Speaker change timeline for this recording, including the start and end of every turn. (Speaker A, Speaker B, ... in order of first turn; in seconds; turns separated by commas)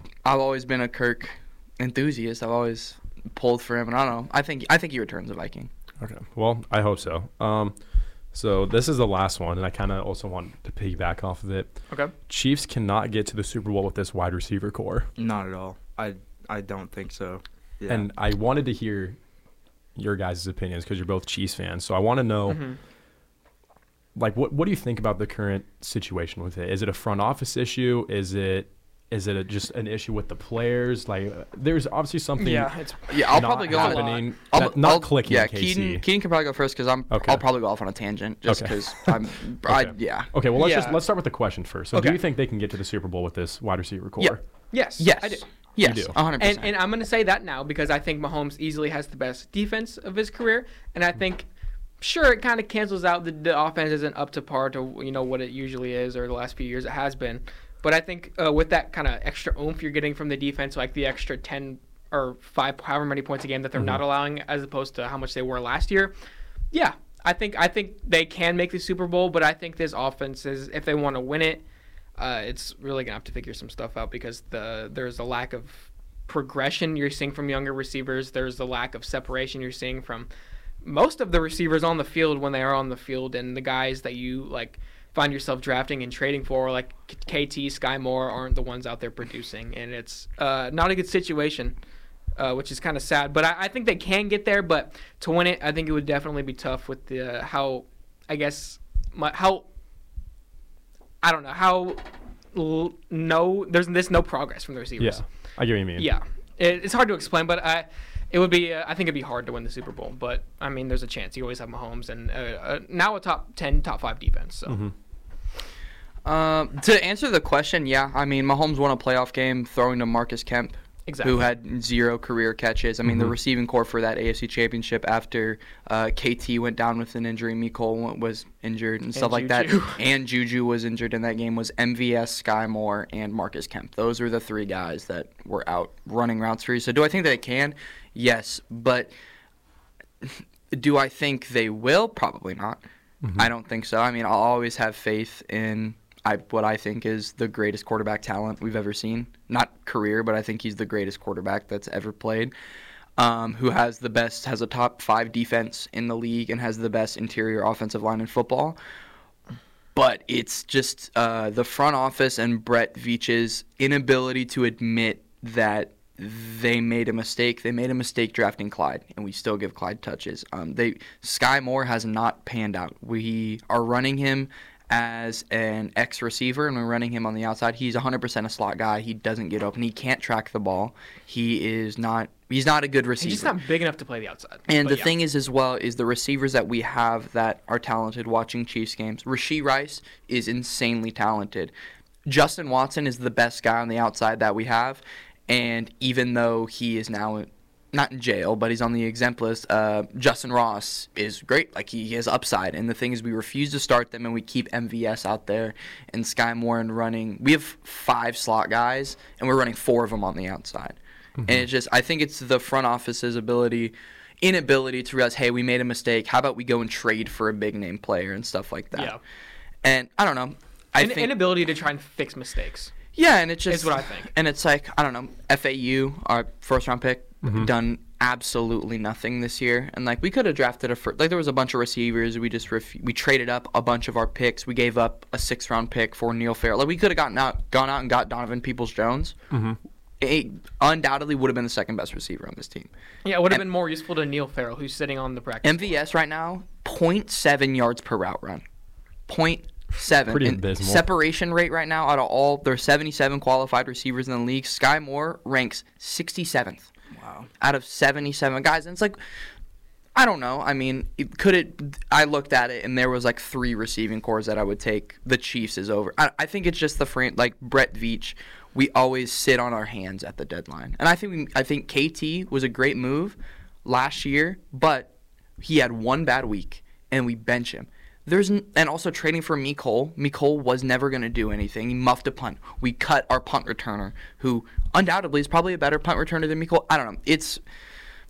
Speaker A: 0.2-5.7, Speaker B: 6.0-7.8, Speaker B: 8.3-11.8, Speaker B: 12.3-15.1, Speaker C: 15.2-18.1, Speaker B: 17.9-19.2, Speaker B: 19.9-22.6, Speaker D: 22.5-22.8, Speaker B: 24.1-36.0, Speaker D: 32.4-34.2, Speaker A: 33.1-40.3, Speaker B: 37.1-37.4, Speaker B: 38.5-44.4, Speaker D: 40.5-41.0, Speaker D: 41.9-42.2, Speaker D: 44.7-45.5, Speaker A: 45.0-46.7, Speaker B: 45.8-46.1, Speaker D: 46.4-51.5, Speaker D: 52.0-66.1, Speaker D: 66.7-71.6, Speaker D: 72.2-80.3, Speaker D: 80.8-91.8, Speaker D: 92.4-99.7, Speaker D: 101.2-105.2, Speaker B: 105.0-106.1, Speaker D: 106.0-114.8, Speaker B: 114.7-114.9, Speaker A: 116.2-139.1, Speaker D: 121.1-121.5, Speaker D: 129.1-130.0, Speaker A: 140.2-142.8, Speaker B: 143.2-143.5, Speaker A: 143.3-152.5, Speaker A: 153.2-158.8, Speaker A: 159.9-183.5, Speaker D: 183.2-185.2, Speaker A: 184.7-191.7, Speaker A: 192.2-219.2, Speaker D: 218.9-219.2, Speaker A: 219.8-221.4, Speaker D: 221.0-222.9, Speaker A: 223.1-239.4, Speaker D: 223.7-224.3, Speaker B: 227.4-227.7, Speaker B: 239.5-239.8, Speaker A: 240.2-242.9, Speaker D: 243.2-246.0, Speaker A: 245.6-248.6, Speaker A: 249.3-256.9, Speaker B: 250.3-251.1, Speaker C: 257.1-257.5, Speaker A: 257.6-259.2, Speaker A: 260.1-287.6